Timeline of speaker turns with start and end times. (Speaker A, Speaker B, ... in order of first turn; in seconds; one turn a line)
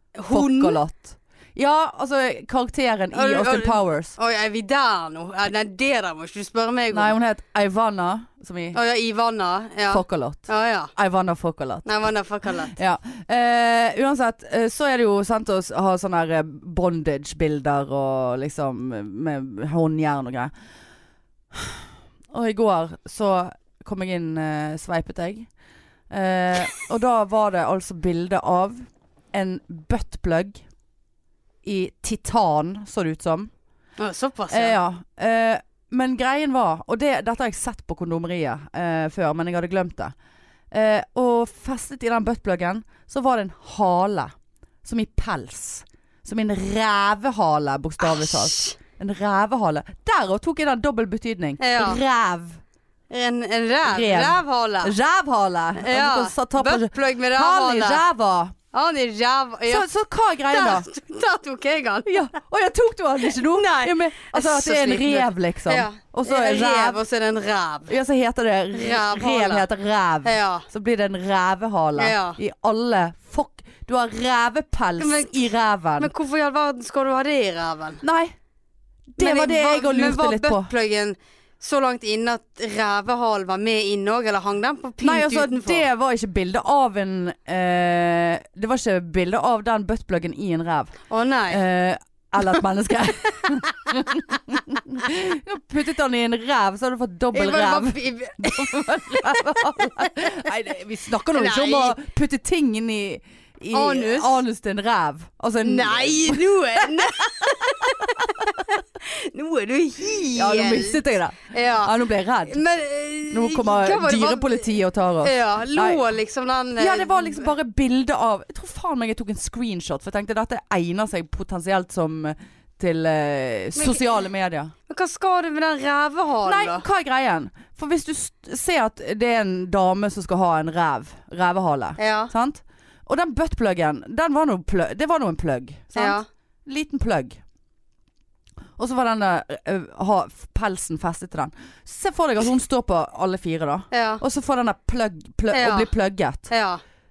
Speaker A: 0.2-0.8
Speaker B: 0.3-4.2
Speaker A: 3.1-7.2
Speaker B: 6.9-8.8
Speaker A: 8.7-10.9
Speaker B: 9.9-11.9
Speaker A: 11.8-12.8
Speaker B: 12.7-20.5
Speaker B: 21.5-25.5
Speaker B: 26.1-28.8
Speaker B: 29.3-30.6
Speaker B: 31.6-33.5
Speaker A: 34.0-34.8
Speaker B: 34.5-40.1
Speaker B: 40.7-44.3
Speaker B: 44.9-52.6
Speaker A: 48.0-48.8
Speaker A: 51.6-52.0
Speaker A: 53.1-55.0
Speaker B: 53.9-58.5
Speaker A: 55.8-58.0
Speaker A: 58.7-59.9
Speaker B: 59.7-60.9
Speaker A: 60.5-62.3
Speaker B: 62.1-67.0
Speaker A: 63.3-67.9
Speaker B: 67.9-76.1
Speaker A: 68.7-69.7
Speaker A: 70.2-70.7
Speaker A: 72.0-72.4
Speaker A: 75.0-75.4
Speaker A: 76.0-78.0
Speaker B: 78.0-78.4
Speaker B: 79.2-80.7
Speaker A: 79.2-85.8
Speaker B: 85.0-91.0
Speaker A: 91.1-91.6
Speaker B: 91.5-108.6
Speaker A: 97.3-100.3
Speaker A: 101.3-102.0
Speaker A: 103.7-104.4
Speaker A: 105.6-111.9
Speaker B: 110.3-112.6
Speaker A: 112.5-117.5
Speaker B: 113.3-116.0
Speaker B: 116.8-124.7
Speaker A: 123.8-124.1
Speaker A: 124.9-126.8
Speaker B: 126.5-137.4
Speaker A: 132.0-132.3
Speaker A: 135.9-136.2
Speaker B: 138.8-146.5
Speaker A: 143.9-144.2
Speaker A: 145.5-145.9
Speaker A: 146.5-146.8